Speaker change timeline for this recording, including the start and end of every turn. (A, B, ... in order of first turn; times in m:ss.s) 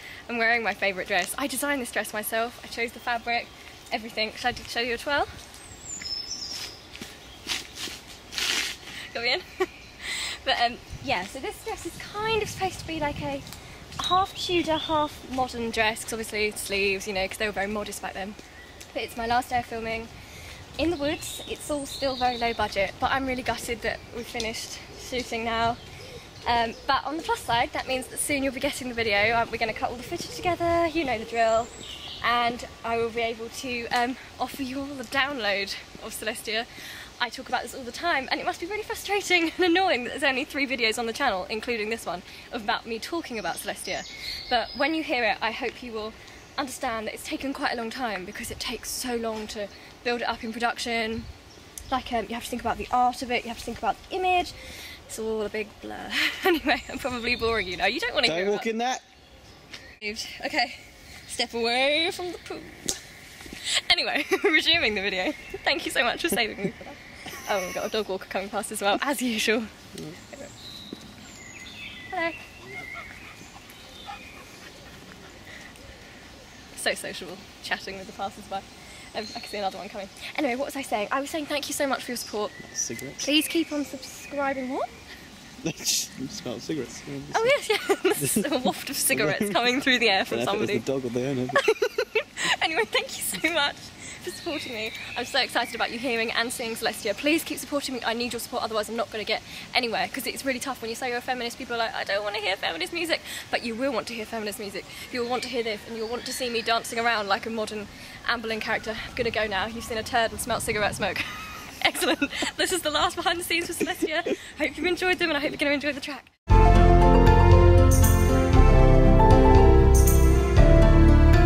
0:00.3-0:05.3 A
0:09.1-0:18.4 A
0:18.9-0:20.1 A
0:20.8-0:25.8 A
0:26.4-0:31.7 A
0:32.2-0:51.3 A
0:51.9-0:54.6 A
0:55.1-0:58.7 A
0:58.2-0:59.0 B
1:00.0-1:03.0 A
1:03.5-1:10.5 A
1:12.1-1:12.5 A
1:16.7-1:22.6 A
1:22.6-1:23.3 B
1:23.2-1:24.9 A
1:25.6-1:27.5 B
1:27.3-1:30.9 A
1:28.2-1:28.6 B
1:29.1-1:29.6 B
1:30.3-1:31.6 B
1:31.6-1:56.3 A